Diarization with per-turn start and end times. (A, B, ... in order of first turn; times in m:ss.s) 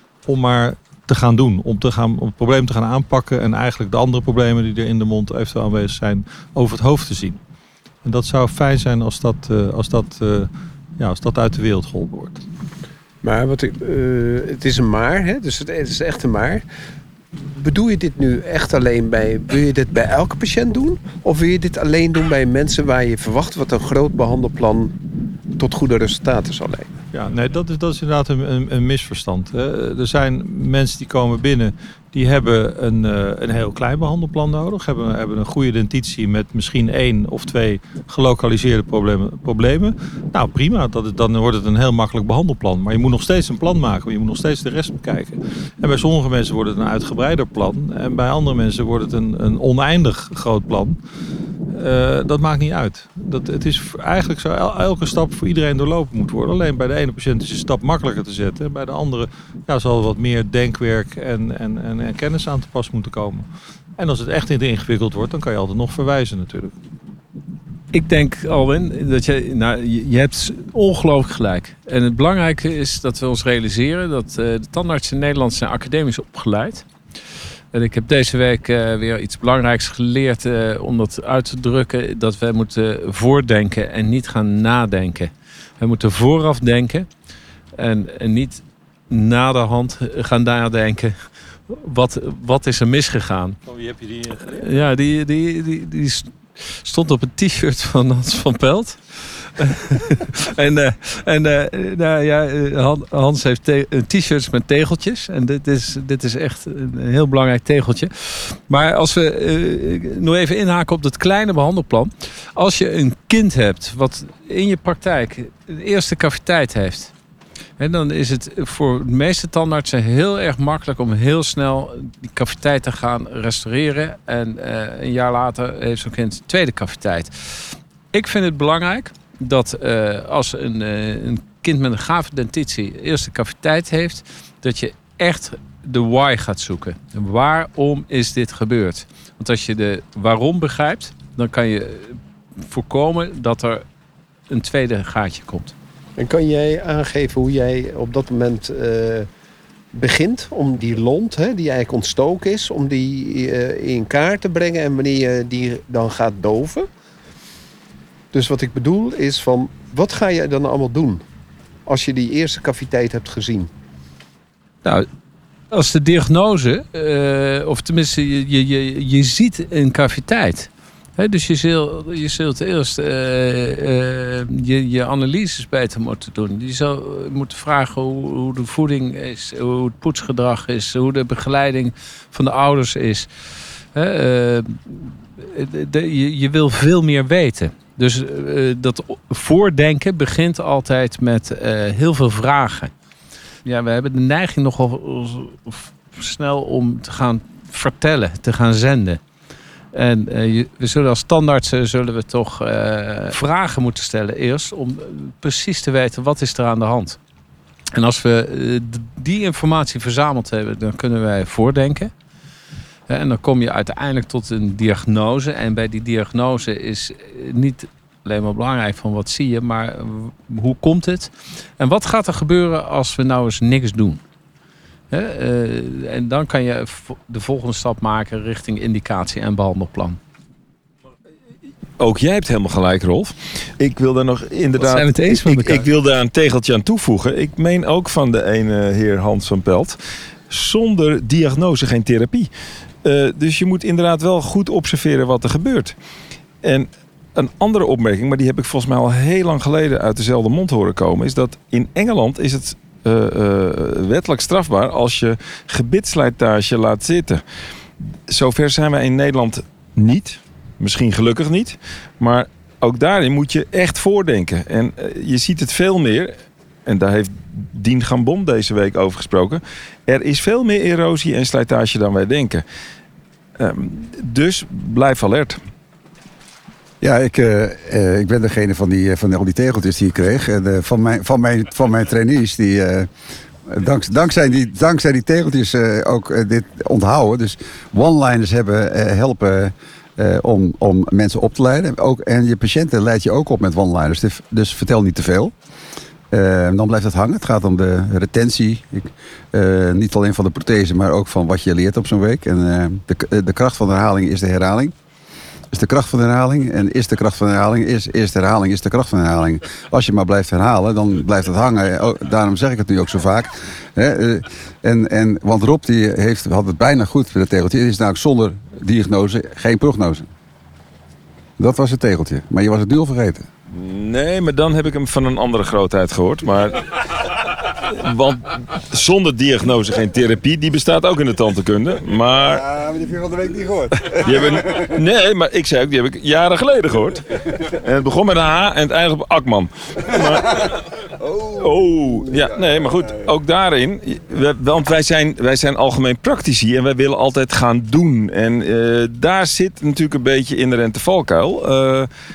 0:00.2-0:07.4 A
0:08.0-0:12.4 A
0:13.2-0:16.6 B
0:17.5-0:24.9 B
0:25.6-0:26.9 B
0:27.1-0:51.0 A
0:51.7-1:06.7 A
1:07.9-1:16.8 C
1:17.7-1:27.1 C
1:27.8-1:31.2 C
1:31.7-1:33.6 C
1:33.6-1:34.8 A
1:34.5-1:57.1 C
1:57.8-2:23.8 C
2:24.5-2:25.7 C
2:26.2-2:29.3 B
2:29.9-2:36.9 B
2:38.3-2:41.2 B
2:41.9-2:43.7 B
2:45.7-3:03.3 C
3:03.9-3:12.9 C
3:13.6-3:19.2 C
3:19.9-3:27.2 C
3:27.9-3:32.1 C
3:33.1-3:44.2 C
3:45.1-3:50.2 C
3:52.0-4:00.0 D
3:54.8-3:55.8 C
4:00.5-4:02.5 D
4:03.0-4:05.9 D
4:06.6-4:17.4 D
4:18.3-4:26.3 D
4:26.8-4:32.6 D
4:33.6-4:35.6 D
4:37.0-4:43.1 E
4:43.7-4:55.5 E
4:56.3-5:04.9 E
5:05.7-5:20.2 E
5:21.6-5:23.5 E
5:23.7-5:32.6 D
5:32.5-5:34.9 E
5:34.1-5:40.8 D
5:41.2-5:41.5 E
5:41.5-5:52.1 D